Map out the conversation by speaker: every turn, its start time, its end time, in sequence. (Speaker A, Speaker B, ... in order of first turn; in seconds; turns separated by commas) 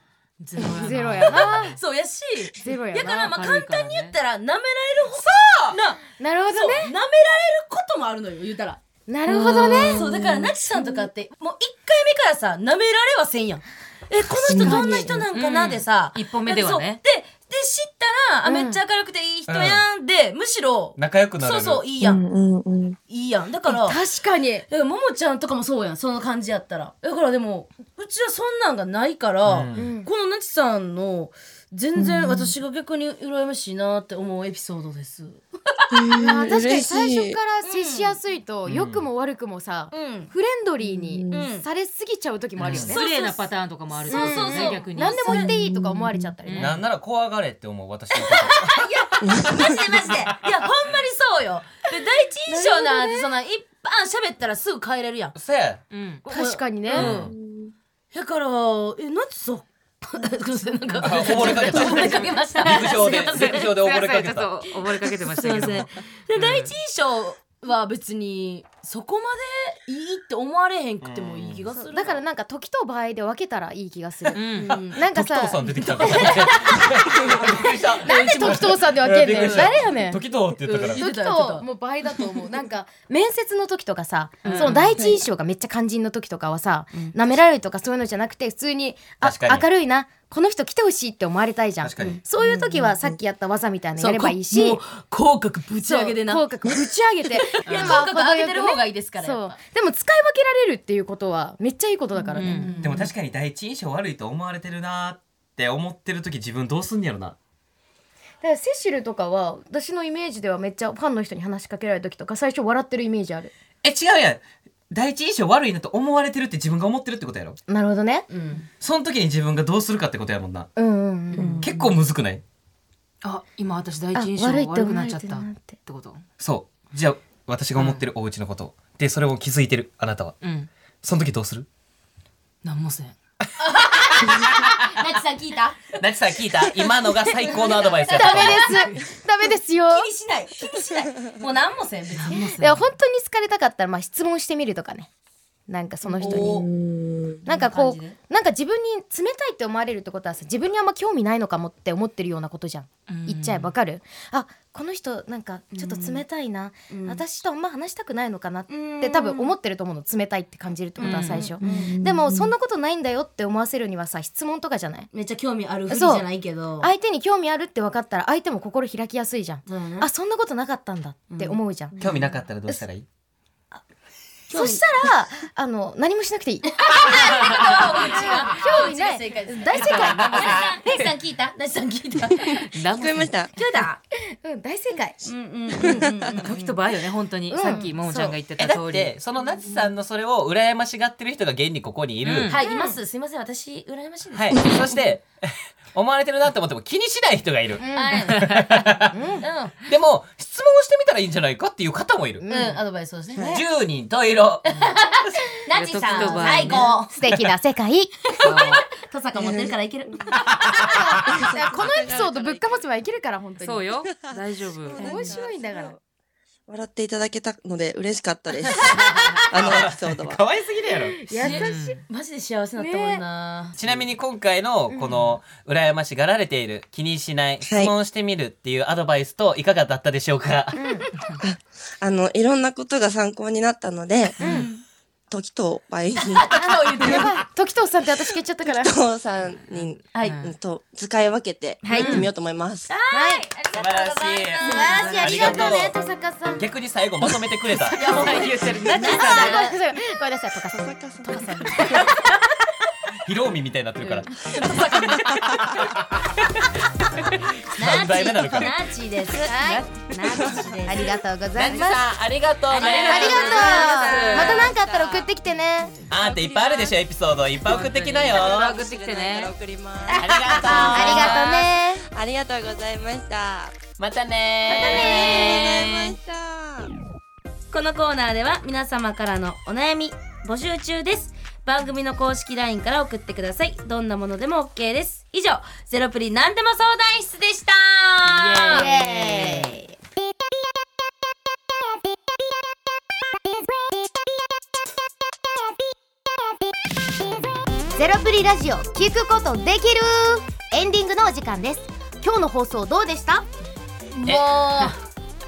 Speaker A: 0.4-1.8, Speaker B: 0.6-1.8, Speaker C: 1.2-22.2, Speaker B: 2.6-3.4, Speaker A: 3.3-4.2, Speaker D: 5.1-5.8, Speaker B: 6.2-6.9, Speaker B: 9.1-10.1, Speaker E: 9.3-10.9, Speaker E: 14.5-14.8, Speaker B: 14.6-15.2, Speaker A: 15.3-17.0, Speaker B: 18.4-18.8, Speaker D: 19.5-19.8, Speaker D: 21.0-21.9, Speaker E: 22.0-23.0, Speaker C: 23.1-24.0, Speaker B: 23.7-24.7, Speaker C: 24.7-36.1, Speaker D: 29.5-29.9, Speaker B: 29.8-30.1, Speaker E: 32.0-32.5, Speaker E: 35.9-37.4, Speaker B: 36.1-43.1, Speaker C: 37.6-38.2, Speaker D: 38.7-39.1, Speaker C: 39.9-40.3, Speaker E: 40.8-41.5, Speaker C: 41.3-41.6, Speaker A: 42.6-45.5, Speaker D: 42.6-42.9, Speaker C: 42.7-45.5, Speaker B: 44.1-46.8, Speaker E: 45.3-46.3, Speaker A: 46.5-46.8, Speaker D: 46.6-48.9, Speaker C: 48.1-55.4, Speaker E: 49.2-49.8, Speaker B: 52.5-53.3, Speaker D: 55.4-55.8, Speaker A: 55.9-56.3, Speaker B: 56.3-57.1, Speaker C: 56.3-57.3, Speaker D: 57.0-57.3, Speaker E: 57.0-57.7, Speaker C: 58.1-63.8, Speaker D: 61.0-64.5, Speaker B: 61.5-61.7, Speaker A: 62.0-66.8, Speaker C: 64.8-72.2, Speaker D: 71.0-71.7, Speaker B: 71.8-76.8, Speaker A: 74.3-74.7, Speaker C: 74.5-75.0, Speaker D: 74.7-81.0, Speaker C: 75.8-76.9, Speaker C: 77.4-79.9, Speaker B: 77.5-80.2, Speaker C: 80.6-82.3, Speaker B: 80.9-94.8, Speaker A: 84.4-84.9, Speaker C: 84.5-85.2, Speaker D: 89.2-89.7, Speaker D: 91.8-92.2, Speaker C: 92.0-93.1, Speaker C: 94.0-96.8, Speaker B: 95.8-102.7, Speaker C: 97.4-99.6, Speaker A: 97.7-98.0, Speaker A: 102.3-102.8, Speaker C: 102.4-103.1, Speaker D: 102.8-107.3, Speaker B: 108.4-113.5, Speaker D: 113.8-117.6, Speaker B: 117.7-118.3, Speaker C: 118.3-118.7, Speaker D: 118.8-120.7, Speaker B: 120.8-121.7, Speaker A: 121.3-121.7, Speaker E: 121.4-121.7, Speaker D: 121.6-122.4, Speaker A: 123.2-126.2, Speaker B: 124.1-125.8, Speaker D: 126.4-130.4, Speaker A: 127.8-128.0, Speaker A: 130.4-130.7, Speaker D: 131.0-131.7, Speaker A: 132.6-133.2, Speaker C: 133.6-135.8, Speaker D: 136.0-138.7, Speaker C: 137.3-138.9, Speaker B: 138.1-140.1, Speaker C: 139.9-142.6, Speaker A: 142.1-142.9, Speaker B: 142.3-145.1, Speaker B: 145.7-146.7, Speaker E: 146.1-147.4, Speaker C: 146.2-146.7, Speaker B: 147.4-165.1, Speaker C: 147.5-148.2, Speaker A: 153.1-153.7, Speaker C: 155.8-156.2, Speaker C: 156.9-157.2, Speaker C: 158.7-159.5, Speaker C: 161.0-162.2, Speaker A: 161.0-161.5, Speaker E: 161.7-162.5, Speaker C: 165.1-166.9, Speaker B: 165.9-166.3, Speaker B: 166.8-172.1, Speaker C: 169.7-170.1, Speaker C: 171.3-172.1, Speaker D: 172.0-173.1, Speaker C: 174.5-174.8, Speaker B: 174.5-180.8, Speaker C: 176.8-182.6, Speaker A: 179.7-180.8, Speaker A: 182.4-183.4, Speaker E: 182.9-183.5, Speaker C: 183.5-184.0, Speaker B: 184.4-185.2, Speaker C: 185.2-186.6, Speaker A: 186.3-189.1, Speaker B: 187.5-188.4, Speaker C: 187.6-187.9, Speaker D: 188.6-192.6, Speaker A: 192.2-192.6, Speaker C: 192.5-194.9, Speaker B: 192.6-193.0, Speaker D: 194.3-199.1, Speaker B: 197.8-198.4, Speaker C: 197.9-198.9, Speaker B: 199.1-199.5, Speaker C: 199.4-199.8, Speaker D: 199.8-202.5, Speaker B: 202.4-202.8, Speaker C: 202.5-203.7, Speaker D: 203.4-204.8, Speaker C: 204.7-207.1, Speaker A: 205.7-206.9, Speaker B: 206.2-208.2, Speaker C: 208.3-210.9, Speaker A: 208.4-208.8, Speaker E: 209.4-209.7, Speaker B: 210.7-213.9, Speaker E: 211.2-212.7, Speaker A: 213.6-215.2, Speaker E: 214.0-216.0, Speaker B: 215.0-216.0, Speaker C: 215.1-215.3, Speaker E: 216.7-218.9, Speaker C: 218.7-219.2, Speaker E: 219.5-220.4, Speaker D: 219.6-221.2, Speaker B: 221.1-222.0, Speaker C: 221.3-223.8, Speaker A: 221.5-222.0, Speaker B: 222.8-223.2, Speaker D: 223.8-230.8, Speaker B: 224.9-225.4, Speaker E: 227.7-227.9, Speaker B: 230.7-231.1, Speaker E: 231.4-234.4, Speaker A: 234.4-234.7, Speaker B: 234.4-234.7, Speaker C: 234.4-234.8, Speaker E: 235.3-237.2, Speaker C: 236.2-237.4, Speaker B: 236.5-238.9, Speaker E: 238.8-242.9, Speaker C: 240.2-240.4, Speaker A: 240.2-240.5, Speaker B: 241.8-242.2, Speaker C: 241.9-242.3, Speaker A: 242.0-242.3, Speaker C: 242.9-245.8, Speaker B: 243.1-243.4, Speaker D: 243.7-246.0, Speaker B: 244.6-246.7, Speaker D: 246.6-248.1, Speaker C: 247.9-249.8, Speaker B: 248.0-252.2, Speaker A: 248.1-249.6, Speaker E: 250.7-252.2, Speaker D: 253.2-258.9, Speaker C: 254.0-255.5, Speaker C: 257.8-261.1, Speaker B: 259.4-260.0, Speaker B: 260.8-262.1, Speaker D: 261.6-263.9, Speaker C: 262.7-264.7, Speaker A: 262.8-264.6, Speaker B: 262.8-265.9, Speaker E: 263.8-265.3, Speaker D: 266.1-268.8, Speaker E: 266.1-267.0, Speaker A: 267.7-269.5, Speaker E: 268.3-273.8, Speaker C: 270.1-270.8, Speaker D: 270.1-271.4, Speaker B: 270.7-272.0, Speaker A: 271.0-271.4, Speaker D: 274.0-275.5, Speaker C: 274.7-276.2, Speaker E: 274.8-277.0, Speaker C: 277.7-289.8, Speaker A: 288.2-289.1, Speaker B: 288.7-289.8, Speaker B: 298.0-303.5, Speaker C: 304.1-305.0, Speaker D: 304.2-304.6